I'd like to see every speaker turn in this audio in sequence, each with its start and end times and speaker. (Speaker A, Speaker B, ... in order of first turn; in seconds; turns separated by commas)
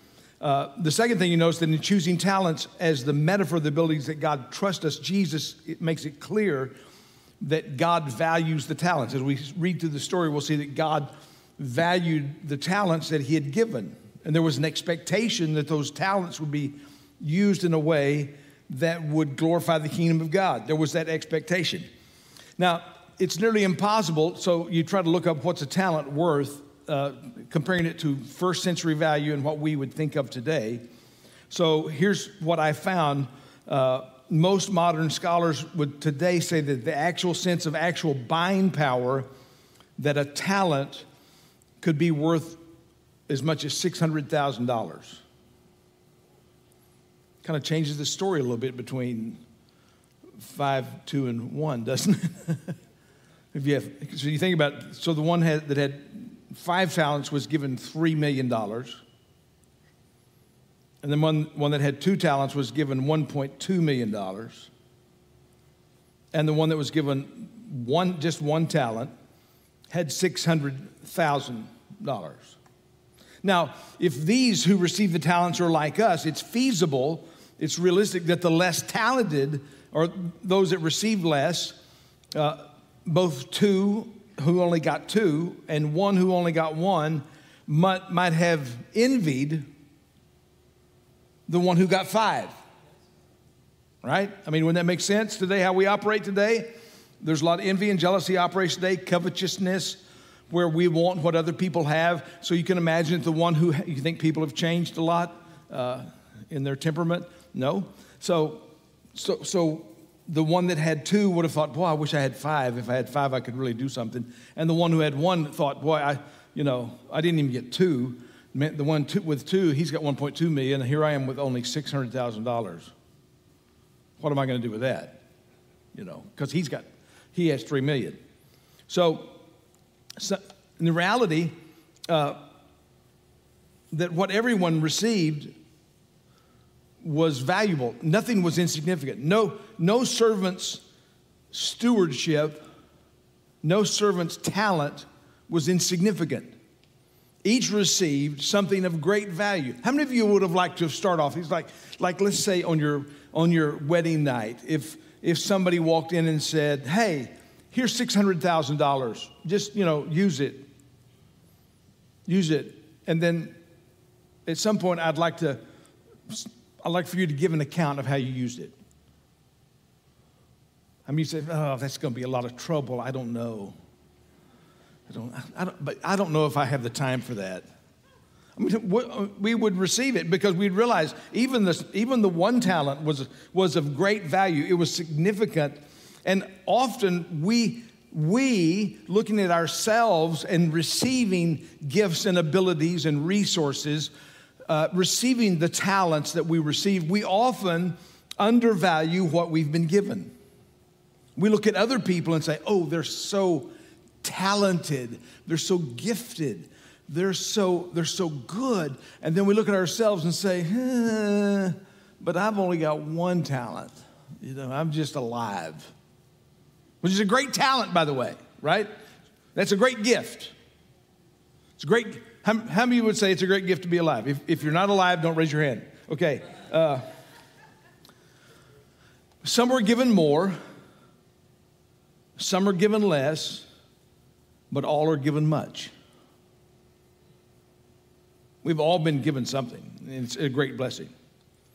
Speaker A: 0.4-6.7, Speaker A: 7.4-21.9, Speaker A: 22.6-30.8, Speaker A: 31.5-39.3, Speaker A: 40.0-41.0, Speaker A: 41.8-42.6, Speaker A: 43.3-45.2, Speaker A: 47.4-49.4, Speaker A: 50.4-52.7, Speaker A: 53.5-59.0, Speaker A: 61.0-64.7, Speaker A: 66.3-69.1, Speaker A: 69.9-72.6, Speaker A: 73.4-81.8, Speaker A: 82.3-89.7, Speaker A: 91.5-92.5, Speaker A: 94.0-122.9, Speaker A: 124.2-125.2, Speaker A: 125.9-128.2, Speaker A: 128.9-129.4, Speaker A: 130.2-131.5, Speaker A: 132.1-132.4, Speaker A: 133.9-135.5, Speaker A: 137.0-140.8, Speaker A: 141.5-142.6, Speaker A: 143.6-146.6, Speaker A: 147.4-160.7, Speaker A: 162.2-163.6, Speaker A: 164.4-165.6, Speaker A: 166.3-168.7, Speaker A: 171.1-173.8, Speaker A: 175.1-177.7, Speaker A: 178.6-194.1, Speaker A: 194.7-200.3, Speaker A: 201.3-203.7, Speaker A: 204.2-215.9, Speaker A: 217.0-218.9, Speaker A: 219.5-220.5, Speaker A: 221.8-227.0, Speaker A: 229.4-230.6, Speaker A: 232.4-233.7, Speaker A: 234.7-235.9, Speaker A: 238.6-241.1